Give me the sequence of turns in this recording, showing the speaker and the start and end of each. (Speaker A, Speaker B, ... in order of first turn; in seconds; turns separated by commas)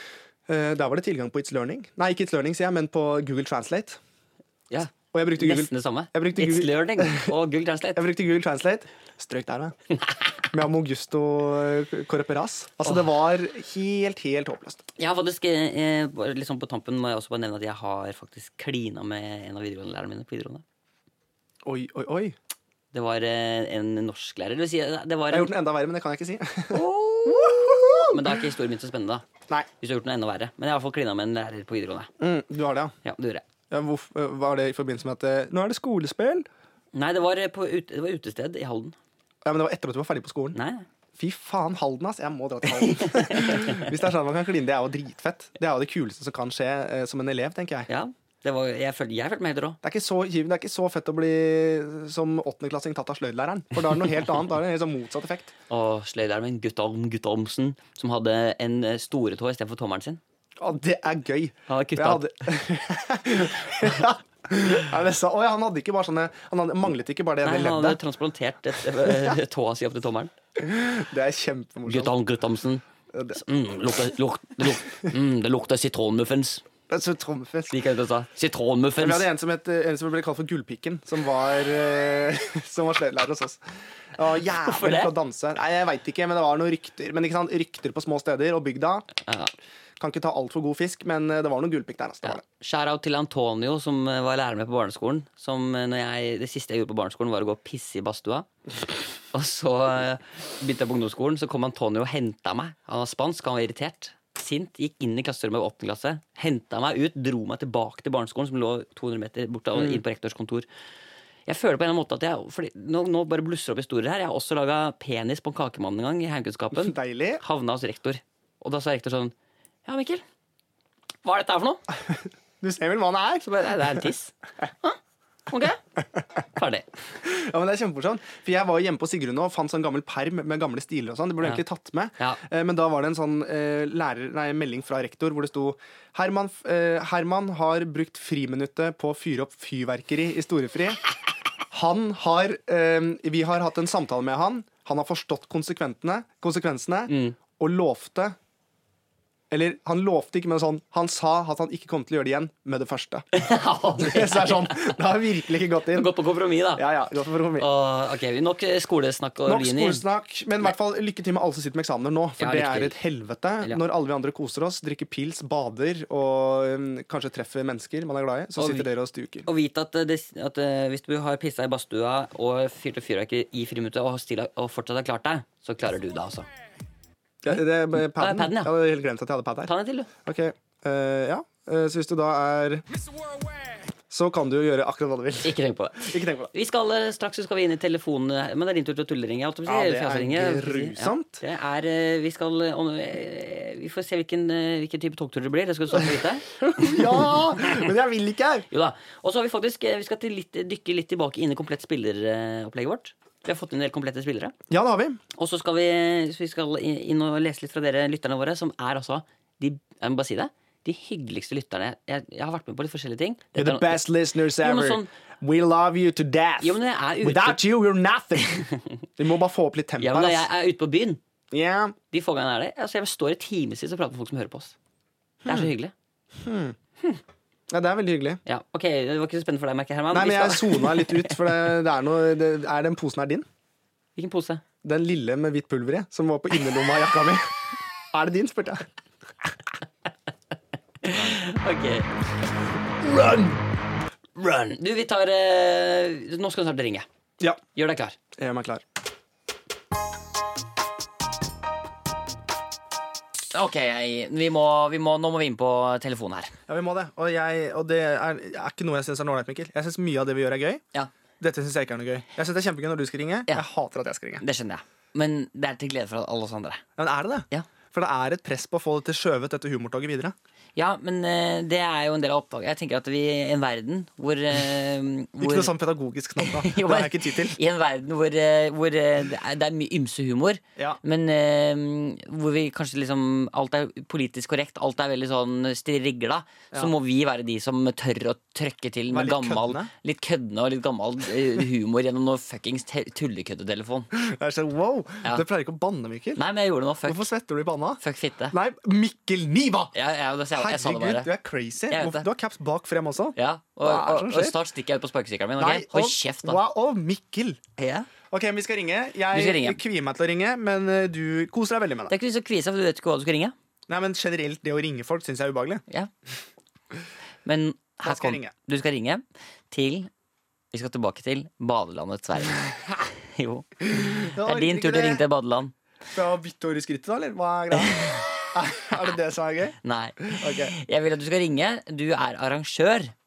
Speaker A: 0.5-4.0, Speaker B: 4.7-8.1, Speaker A: 5.1-7.3, Speaker A: 8.0-9.8, Speaker A: 10.5-14.9, Speaker B: 15.0-20.6, Speaker A: 21.6-22.4, Speaker B: 22.9-25.5, Speaker A: 25.3-28.4, Speaker B: 26.7-29.2, Speaker B: 29.8-32.1, Speaker A: 32.2-33.0, Speaker B: 33.0-33.4, Speaker A: 33.7-36.5, Speaker B: 36.9-39.0, Speaker A: 39.4-40.6, Speaker B: 40.5-40.9, Speaker A: 41.2-47.9, Speaker B: 42.8-43.9, Speaker B: 47.9-49.8, Speaker A: 49.8-55.5, Speaker B: 55.7-60.2, Speaker A: 60.6-68.0, Speaker B: 61.7-62.3, Speaker B: 67.4-70.3, Speaker A: 69.0-69.3, Speaker A: 70.6-72.1, Speaker B: 71.9-72.8, Speaker A: 73.1-73.4, Speaker B: 73.3-76.6, Speaker A: 76.9-77.8, Speaker B: 77.7-79.3, Speaker A: 79.0-83.6, Speaker A: 84.1-89.1, Speaker B: 84.6-85.1, Speaker B: 89.2-89.5, Speaker A: 90.0-92.4, Speaker B: 92.2-98.5, Speaker B: 99.3-110.7, Speaker A: 109.8-110.0, Speaker B: 111.5-119.3, Speaker A: 116.7-117.4, Speaker B: 119.8-120.2, Speaker B: 121.2-121.8, Speaker A: 122.1-124.0, Speaker B: 123.4-125.0, Speaker B: 125.5-125.8, Speaker B: 126.6-126.9, Speaker A: 127.2-141.0, Speaker A: 141.7-148.4, Speaker B: 147.1-147.4, Speaker A: 149.5-153.3, Speaker B: 153.3-155.0, Speaker A: 154.0-156.1, Speaker B: 155.9-156.8, Speaker A: 156.8-157.7, Speaker B: 157.6-160.0, Speaker A: 159.5-169.5, Speaker B: 162.4-163.0, Speaker B: 168.6-168.9, Speaker B: 169.5-176.5, Speaker A: 177.4-179.7, Speaker B: 177.5-178.7, Speaker B: 179.7-180.1, Speaker A: 180.2-182.8, Speaker A: 184.1-186.5, Speaker B: 185.4-197.7, Speaker A: 189.7-191.4, Speaker A: 196.6-198.7, Speaker B: 198.7-204.6, Speaker A: 204.7-205.2, Speaker B: 205.4-215.1, Speaker A: 213.6-218.6, Speaker B: 216.6-217.6, Speaker B: 218.5-219.0, Speaker A: 219.2-220.5, Speaker B: 220.0-221.2, Speaker A: 221.5-222.0, Speaker B: 222.1-224.8, Speaker A: 225.4-225.7, Speaker B: 225.4-225.9, Speaker A: 226.4-226.8, Speaker A: 227.7-228.4, Speaker B: 228.5-231.5, Speaker A: 230.1-233.5, Speaker B: 234.2-234.6, Speaker A: 234.8-237.5, Speaker A: 238.1-238.9, Speaker B: 241.0-242.1, Speaker A: 243.1-243.4, Speaker B: 243.2-243.5, Speaker B: 244.4-247.1, Speaker B: 247.7-248.2, Speaker A: 248.4-248.8, Speaker B: 253.5-256.5, Speaker A: 256.7-260.8, Speaker A: 261.4-264.4, Speaker B: 264.4-266.8, Speaker A: 267.0-270.4, Speaker B: 270.8-275.7, Speaker A: 275.4-277.6, Speaker B: 276.4-294.1, Speaker A: 289.1-289.9, Speaker A: 294.1-296.4, Speaker B: 296.4-297.2, Speaker A: 297.1-298.0, Speaker B: 298.0-298.6, Speaker A: 298.5-299.9, Speaker B: 299.9-301.3, Speaker A: 300.5-304.6, Speaker B: 301.9-302.2, Speaker B: 303.4-306.6, Speaker A: 305.6-307.6, Speaker B: 307.8-308.1, Speaker A: 308.3-312.1, Speaker B: 309.3-309.8, Speaker B: 312.1-313.5, Speaker A: 313.9-315.8, Speaker B: 317.4-320.1, Speaker A: 318.0-318.5, Speaker B: 320.7-325.7, Speaker A: 323.9-325.2, Speaker A: 326.1-330.7, Speaker B: 329.8-333.1